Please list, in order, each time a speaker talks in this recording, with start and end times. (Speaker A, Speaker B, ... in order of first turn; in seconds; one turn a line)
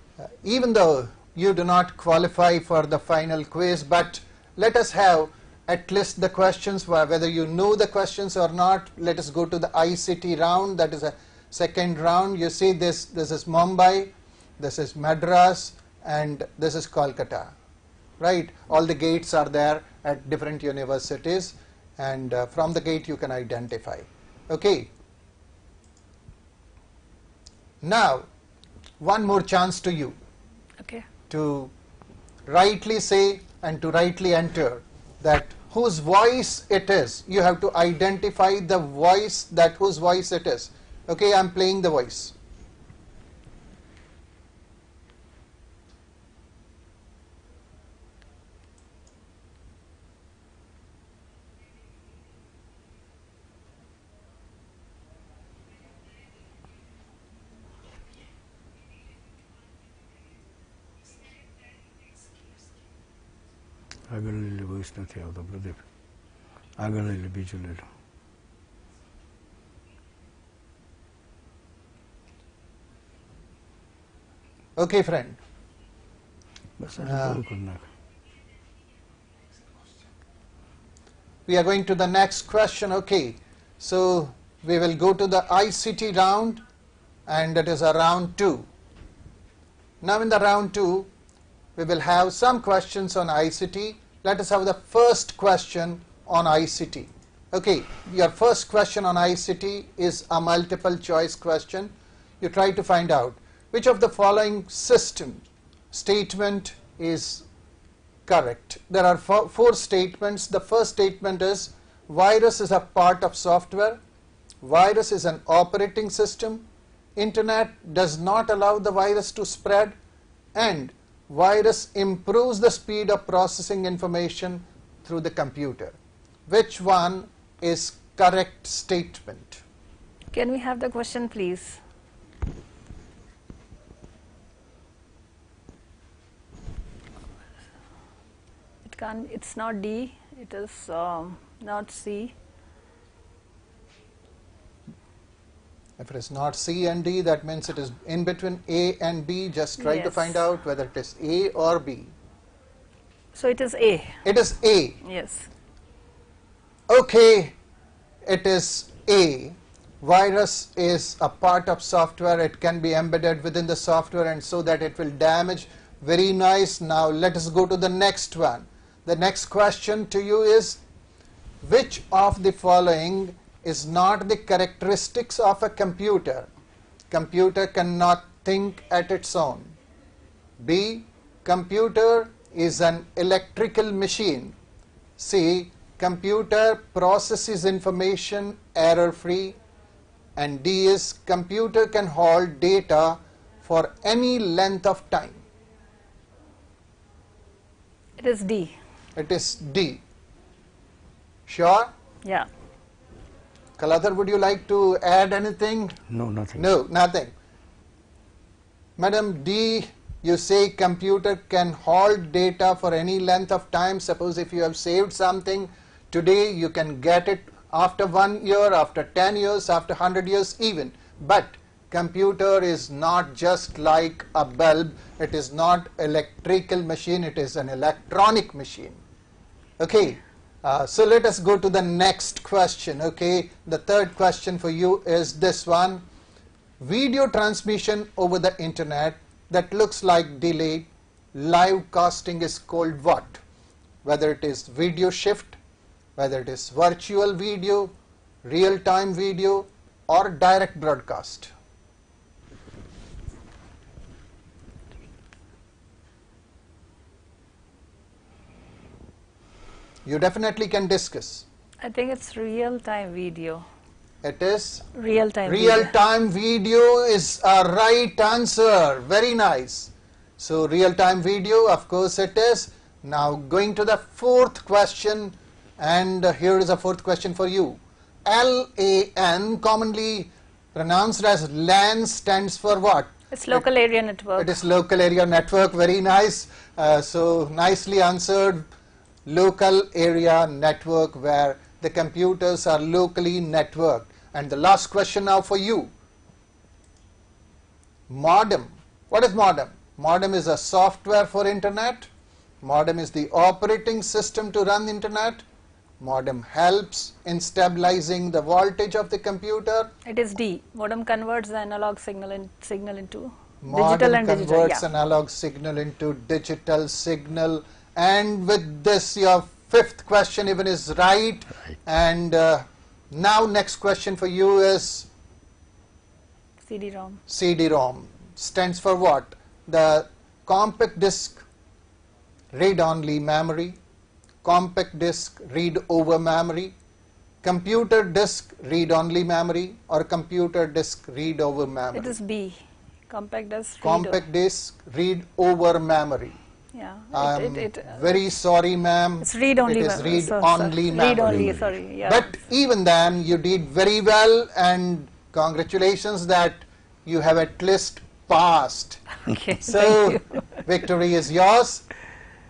Speaker A: 0.4-17.5
Speaker A: 18.2-24.9
Speaker A: 27.8-28.3
Speaker A: 29.0-30.2
Speaker A: 31.3-31.7
Speaker A: 32.5-42.3
Speaker B: 64.1-65.8
Speaker B: 66.8-67.8
Speaker A: 74.8-75.4
Speaker B: 76.8-77.8
Speaker A: 77.0-77.4
Speaker A: 81.5-86.6
Speaker A: 87.3-88.7
Speaker A: 90.0-91.1
Speaker A: 91.8-107.5
Speaker A: 108.3-114.0
Speaker A: 114.6-116.7
Speaker A: 117.2-120.0
Speaker A: 120.5-126.0
Speaker A: 126.5-129.6
Speaker C: 130.3-131.8
Speaker C: 138.8-142.3
Speaker A: 146.0-152.1
Speaker C: 149.8-150.4
Speaker C: 153.3-154.2
Speaker A: 154.2-155.0
Speaker C: 155.0-155.5
Speaker A: 156.9-157.6
Speaker A: 158.3-170.8
Speaker A: 171.6-176.5
Speaker A: 177.1-179.8
Speaker A: 180.6-184.6
Speaker A: 185.2-189.6
Speaker A: 190.4-195.4
Speaker C: 198.2-198.8
Speaker A: 199.2-200.0
Speaker A: 201.5-201.9
Speaker A: 203.8-206.0
Speaker B: 206.1-206.6
Speaker A: 206.6-207.3
Speaker A: 209.0-229.0
Speaker A: 229.8-236.0
Speaker A: 236.8-243.4
Speaker A: 244.0-245.6
Speaker A: 246.2-247.9
Speaker A: 248.4-251.5
Speaker A: 260.1-261.4
Speaker C: 261.8-263.6
Speaker A: 264.2-264.9
Speaker C: 264.9-265.9
Speaker A: 265.5-283.7
Speaker C: 283.3-284.6
Speaker A: 284.4-288.7
Speaker A: 289.3-295.9
Speaker A: 298.1-302.1
Speaker A: 302.6-305.4
Speaker A: 306.0-309.9
Speaker C: 310.1-314.8
Speaker A: 313.6-325.1
Speaker C: 326.6-327.2
Speaker A: 327.3-331.4
Speaker A: 332.5-333.8
Speaker A: 334.4-336.8
Speaker A: 337.4-342.1
Speaker C: 341.9-344.2
Speaker A: 343.8-346.4
Speaker C: 346.7-348.0
Speaker A: 347.1-359.0
Speaker C: 349.2-352.4
Speaker C: 359.3-360.6
Speaker A: 359.6-361.9